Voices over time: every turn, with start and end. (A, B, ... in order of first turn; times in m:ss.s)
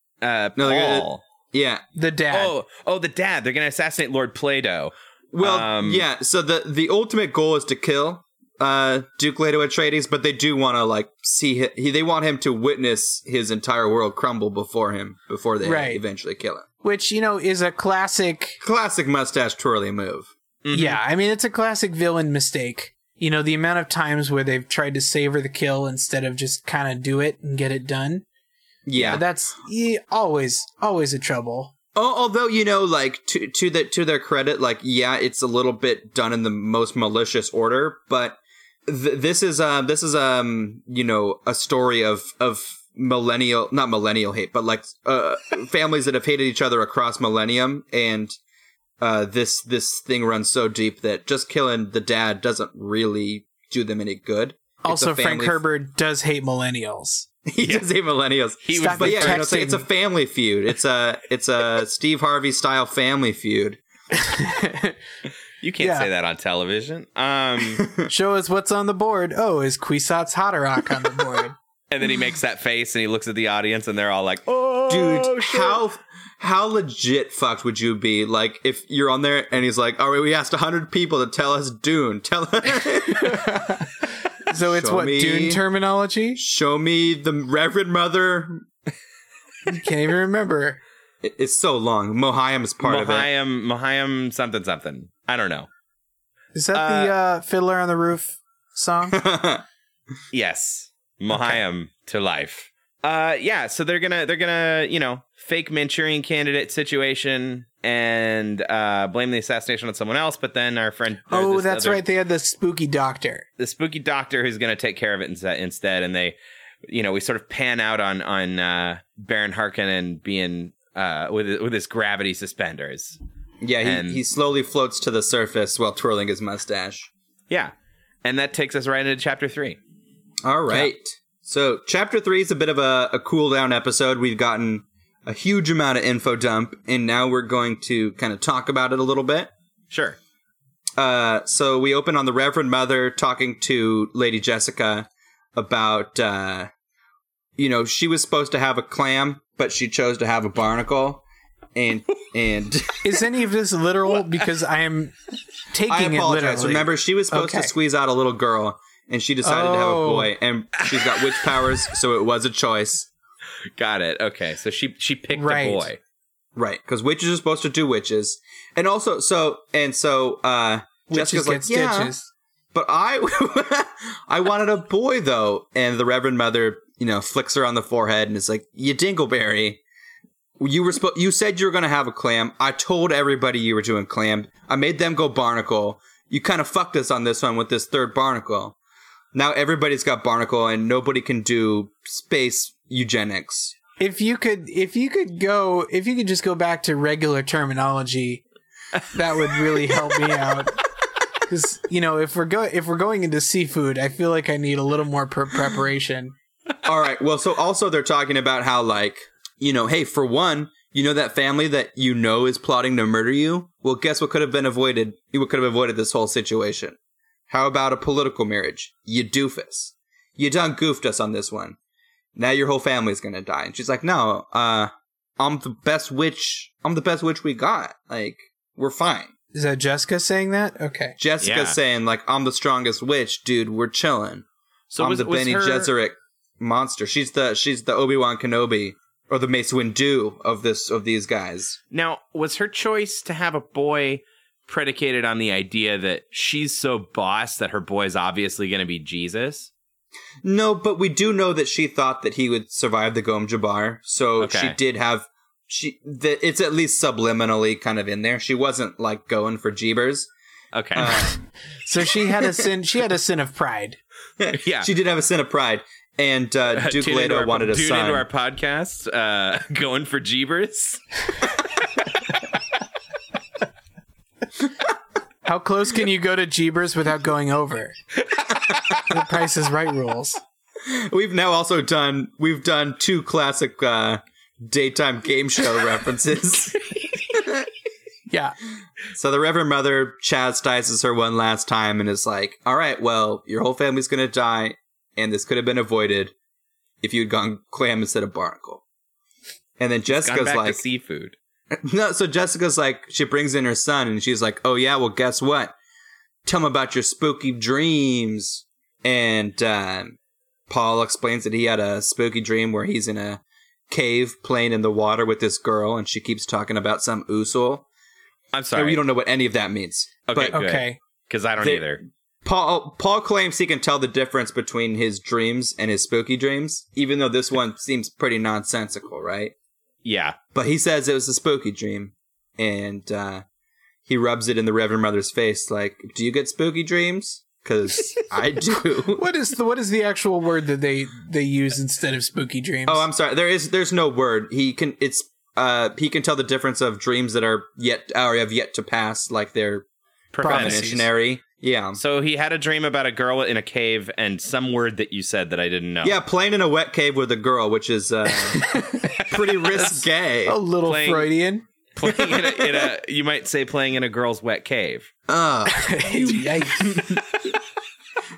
0:00.2-0:01.2 A
0:00.6-0:01.8 B
0:01.9-0:02.5 C
0:02.3-0:06.0 A
0:05.3-0:16.6 B
0:15.6-0:16.0 C
0:16.8-0:18.6 C
0:18.6-0:20.3 B
0:20.6-0:21.0 A
0:20.7-0:28.2 C
0:28.8-0:29.2 B
0:28.9-0:29.2 A
0:29.0-0:31.7 C
0:31.9-0:48.3 B
0:49.0-0:55.6 B
0:54.8-0:57.3 C
0:57.5-1:03.8 B
0:58.6-0:59.5 A
0:58.7-0:59.9 C
1:04.2-1:05.0 C
1:05.6-1:07.9 A
1:05.8-1:06.1 C
1:08.0-1:11.5 C
1:11.9-1:15.8 A
1:14.9-1:23.6 B
1:23.1-1:23.8 C
1:24.5-1:26.4 C
1:24.6-1:25.6 B
1:26.4-1:28.7 B
1:29.7-1:30.8 C
1:31.2-1:33.3 B
1:32.8-1:35.7 A
1:36.5-1:39.2 C
1:36.7-1:37.1 A
1:39.1-1:39.6 B
1:40.3-1:52.0 A
1:41.3-1:41.6 C
1:51.3-1:53.5 C
1:53.6-1:56.4 A
1:56.9-2:03.2 A
2:03.6-2:07.1 B
2:03.8-2:04.2 A
2:08.2-2:09.8 A
2:10.4-2:19.5 B
2:19.9-2:20.2 A
2:21.0-2:26.7 B
2:27.6-2:33.2 B
2:33.0-2:35.1 C
2:35.7-2:37.7 C
2:35.9-2:43.1 B
2:39.4-2:40.3 C
2:40.9-2:41.7 A
2:43.8-2:46.0 A
2:45.3-2:45.9 C
2:46.6-2:52.1 B
2:51.1-2:52.3 C
2:52.7-2:59.8 B
3:00.6-3:08.8 B
3:09.3-3:13.7 B
3:14.0-3:18.4 C
3:19.0-3:20.8 C
3:19.0-3:20.2 A
3:21.5-3:26.3 C
3:26.8-3:37.0 B
3:37.5-3:41.8 B
3:42.3-3:49.3 B
3:49.5-3:51.2 C
3:51.2-3:54.4 B
3:51.4-3:51.8 A
3:54.9-3:55.9 A
3:55.0-4:01.8 B
4:01.9-4:09.7 A
4:10.4-4:20.3 B
4:14.4-4:14.8 A
4:20.7-4:21.4 A
4:20.9-4:21.4 B
4:21.9-4:24.0 C
4:24.4-4:28.3 B
4:24.5-4:24.9 A
4:26.7-4:31.0 A
4:35.4-4:37.9 C
4:38.4-4:39.0 A
4:39.0-4:40.4 C
4:40.8-4:47.6 B
4:48.3-4:48.5 C
4:49.1-4:56.3 B
4:57.0-4:58.8 B
4:59.8-5:00.8 B
5:00.1-5:01.4 A
5:01.7-5:05.7 B
5:06.4-5:10.2 B
5:10.7-5:17.8 B
5:18.5-5:19.0 A
5:18.7-5:20.6 B
5:20.3-5:22.0 A
5:20.5-5:21.0 C
5:21.6-5:29.5 B
5:30.0-5:30.4 A
5:30.5-5:33.4 B
5:34.0-5:39.2 B
5:39.1-5:43.1 C
5:42.9-5:49.8 B
5:50.3-5:50.9 A
5:50.4-5:51.1 C
5:50.4-5:52.0 B
5:52.0-5:56.2 A
5:56.0-6:00.6 B
5:58.4-5:59.8 C
6:00.4-6:01.6 C
6:00.8-6:01.3 A
6:01.9-6:05.1 A
6:02.0-6:02.7 B
6:05.3-6:06.5 B
6:05.7-6:07.2 C
6:06.8-6:07.4 A